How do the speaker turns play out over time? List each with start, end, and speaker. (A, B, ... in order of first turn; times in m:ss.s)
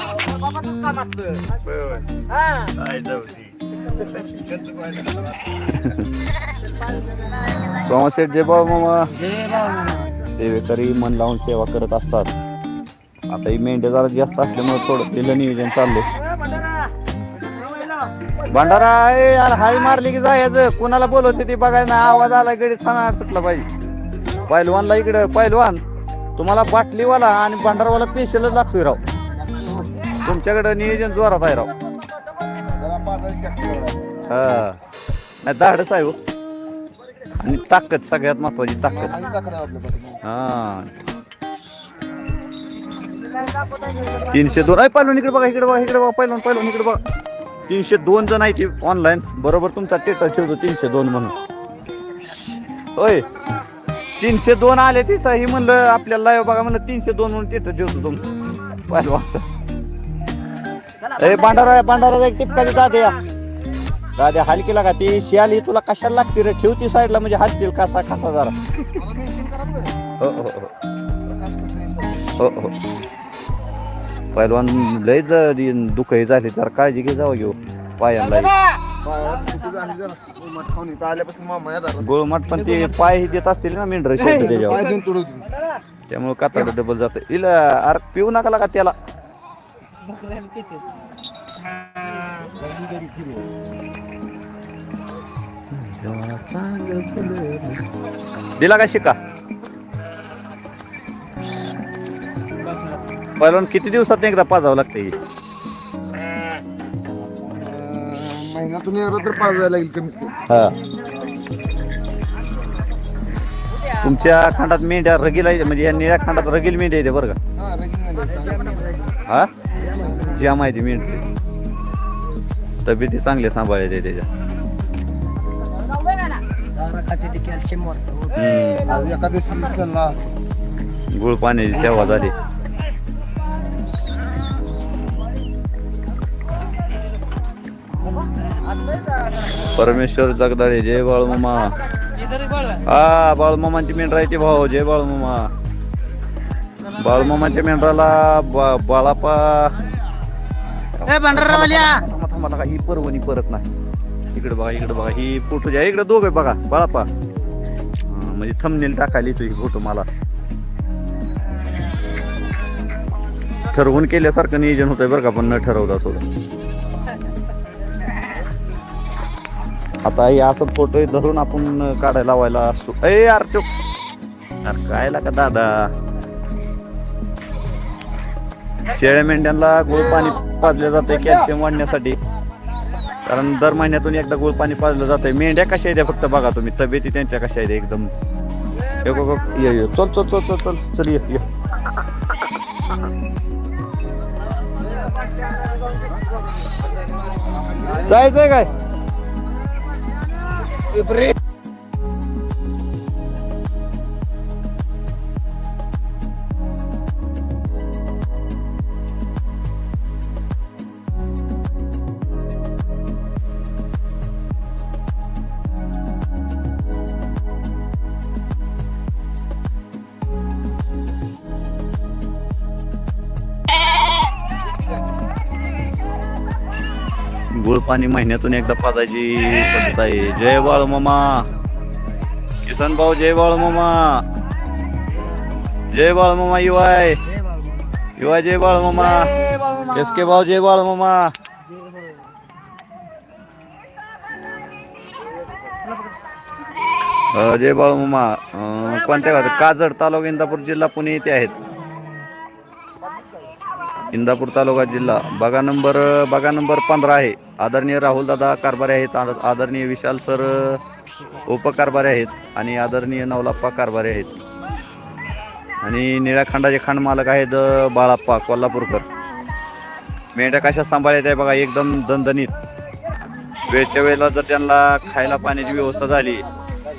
0:00.4-0:01.3 A
0:01.6-0:02.0 B
0:02.6-0:04.8 B
0:05.5-0:06.1 B
0:07.7-0:09.3 B
0:09.4-0:09.7 A
0:10.2-0:12.3 B
0:13.3-0:16.1 B
0:18.5-0:23.7 B
0:24.5-0:25.8 B
0:26.4-0:29.0 B
0:29.4-0:29.9 C
0:30.2-0:31.7 B
0:32.6-0:34.2 C
0:34.3-0:34.8 B
0:35.4-0:36.2 B
0:37.4-0:39.2 B
0:39.1-0:40.2 C
0:40.2-0:41.0 B
0:44.2-0:47.0 B
0:47.7-0:51.4 B
0:52.4-0:53.3 B
0:54.2-0:59.5 B
1:01.1-1:03.2 B
1:04.2-1:09.0 B
1:09.0-1:10.0 C
1:10.2-1:10.7 B
1:11.3-1:12.3 C
1:12.4-1:12.8 B
1:14.3-1:18.5 B
1:19.0-1:22.0 C
1:22.0-1:24.9 B
1:24.7-1:25.5 C
1:26.1-1:29.0 B
1:30.2-1:30.8 A
1:32.6-1:33.4 C
1:35.7-1:37.9 B
1:38.6-1:39.2 B
1:43.4-1:45.2 B
1:47.5-1:50.4 C
1:50.5-1:50.8 B
1:53.9-1:57.4 B
1:57.6-1:59.1 C
1:59.2-2:01.2 B
2:02.8-2:04.3 B
2:06.8-2:08.2 A
2:08.3-2:09.0 B
2:08.9-2:10.2 C
2:11.1-2:12.3 B
2:19.6-2:21.8 B
2:22.8-2:25.5 B
2:26.9-2:29.8 B
2:30.9-2:33.7 B
2:34.3-2:37.1 B
2:38.1-2:40.1 B
2:43.7-2:46.2 B
2:50.0-2:53.7 B
2:54.6-2:55.9 B
2:58.9-3:02.2 B
3:03.3-3:08.1 B
3:09.0-3:11.5 B
3:17.8-3:18.7 B
3:47.5-3:51.5 B
3:52.6-3:54.3 B
3:55.9-3:57.2 B
3:58.2-4:01.3 B
4:07.3-4:11.6 B
4:14.1-4:20.8 B
4:21.5-4:24.4 B
4:25.8-4:29.0 B
4:30.4-4:32.5 B
4:33.7-4:36.4 B